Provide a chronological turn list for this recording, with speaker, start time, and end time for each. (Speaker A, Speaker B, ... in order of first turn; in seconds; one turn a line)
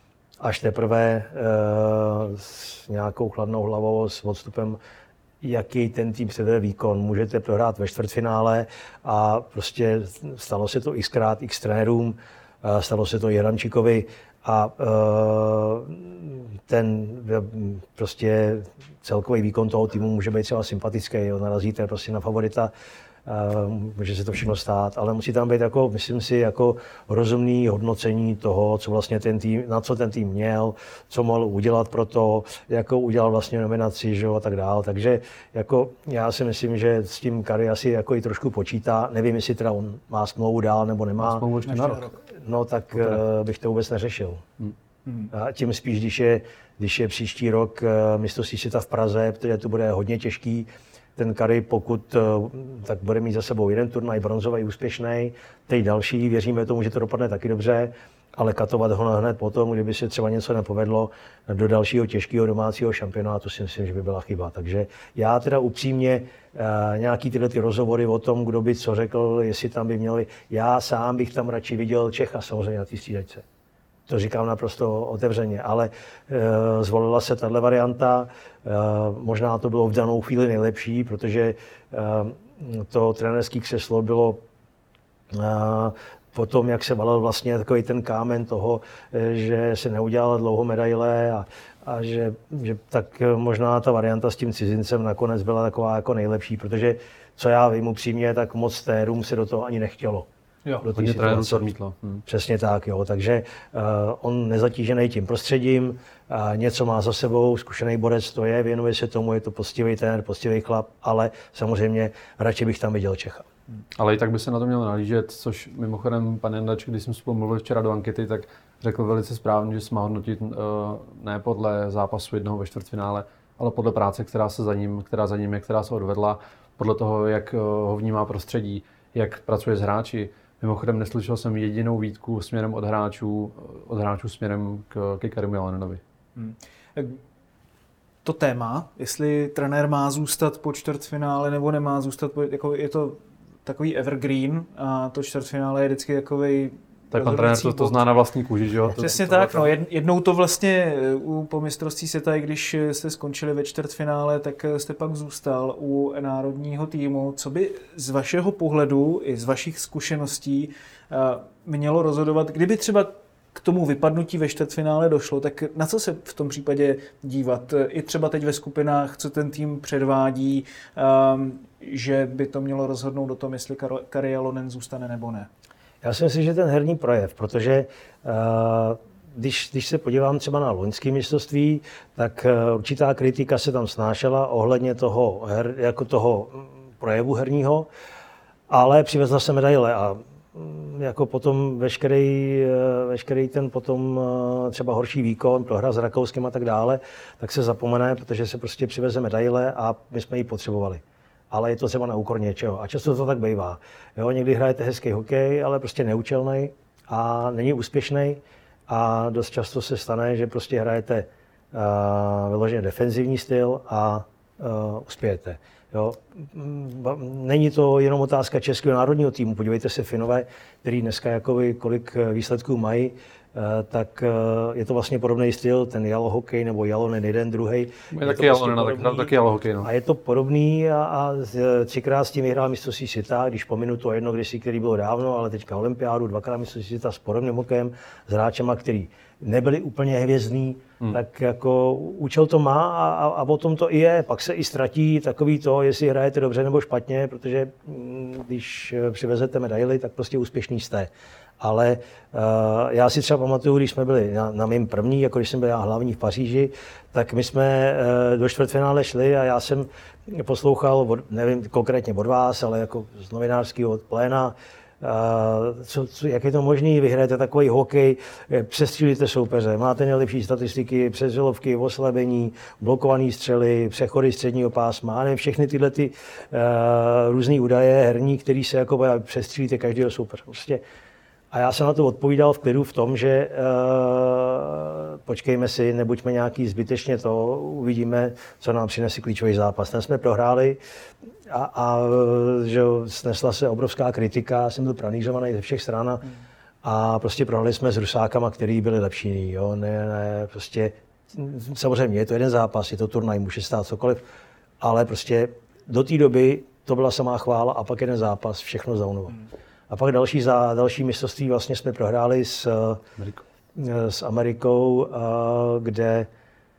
Speaker A: 0.4-4.8
Speaker A: 5.4-22.7
Speaker A: 23.2-41.5
Speaker B: 41.2-42.1
Speaker C: 41.6-42.2
Speaker A: 42.4-44.4
Speaker C: 45.0-45.3
Speaker A: 45.3-73.4
Speaker A: 74.1-84.4
Speaker A: 85.3-100.3
Speaker B: 100.7-102.2
Speaker A: 100.8-101.7
Speaker A: 102.2-113.5
Speaker B: 114.0-136.0
Speaker C: 136.3-137.2
Speaker C: 138.2-148.0
Speaker B: 147.1-149.7
Speaker C: 148.9-175.5
Speaker A: 176.0-187.9
Speaker A: 188.7-280.8
Speaker B: 228.1-229.9
Speaker A: 281.5-290.8
Speaker A: 291.5-296.3
Speaker A: 296.8-304.2
Speaker A: 304.8-313.0
Speaker A: 313.7-316.3